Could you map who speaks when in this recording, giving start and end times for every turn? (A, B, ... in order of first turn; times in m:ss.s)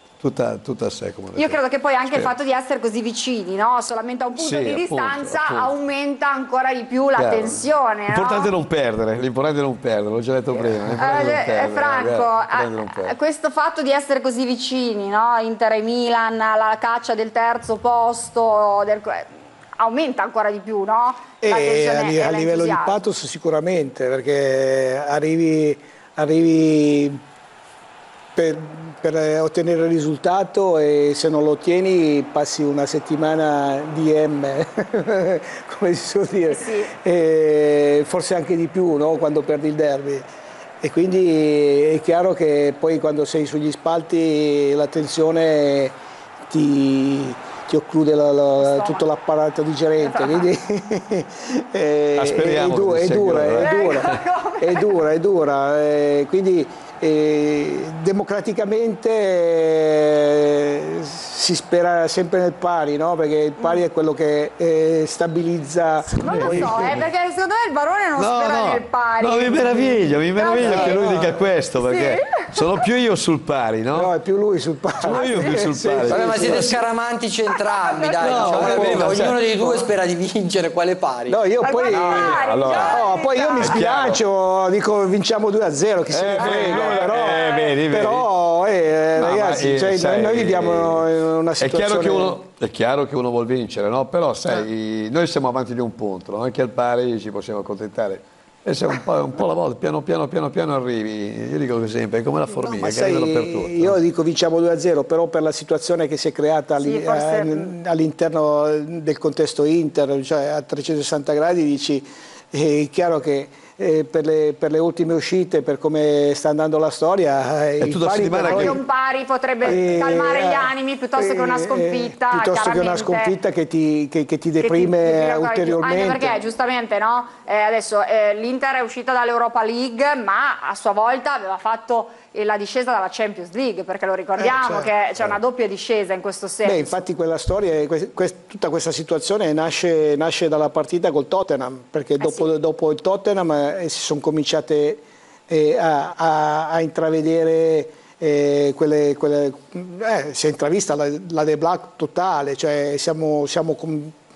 0:00.2-0:02.3 A
0:01.4-0:08.5 B
0:04.4-0:05.7 A
0:07.2-0:13.2 A
0:10.6-0:23.0 B
0:21.4-0:27.2 C
0:28.4-0:40.3 C
0:36.5-0:36.9 B
0:40.8-0:46.0 C
0:46.5-1:07.0 C
0:48.6-0:49.0 B
0:50.0-0:50.5 B
0:52.2-0:54.2 A
0:53.6-0:54.9 B
1:06.1-1:11.0 B
1:06.2-1:07.1 A
1:08.2-1:14.1 A
1:10.5-1:11.4 C
1:11.8-1:12.6 B
1:13.9-1:16.8 C
1:15.0-1:16.7 A
1:15.2-1:15.6 B
1:16.0-1:22.4 D
1:17.7-1:18.2 B
1:18.2-1:19.4 A
1:18.2-1:19.9 C
1:21.3-1:32.4 C
1:21.6-1:23.8 B
1:22.2-1:24.2 A
1:26.1-1:28.3 A
1:26.4-1:27.7 B
1:29.2-1:31.1 A
1:31.6-1:44.0 A
1:42.6-1:58.8 C
1:46.8-1:47.7 B
1:57.8-1:58.8 A
1:58.4-2:03.3 B
1:59.6-2:06.4 C
2:04.6-2:17.0 B
2:14.4-2:14.9 C
2:16.6-2:34.2 C
2:22.2-2:22.5 B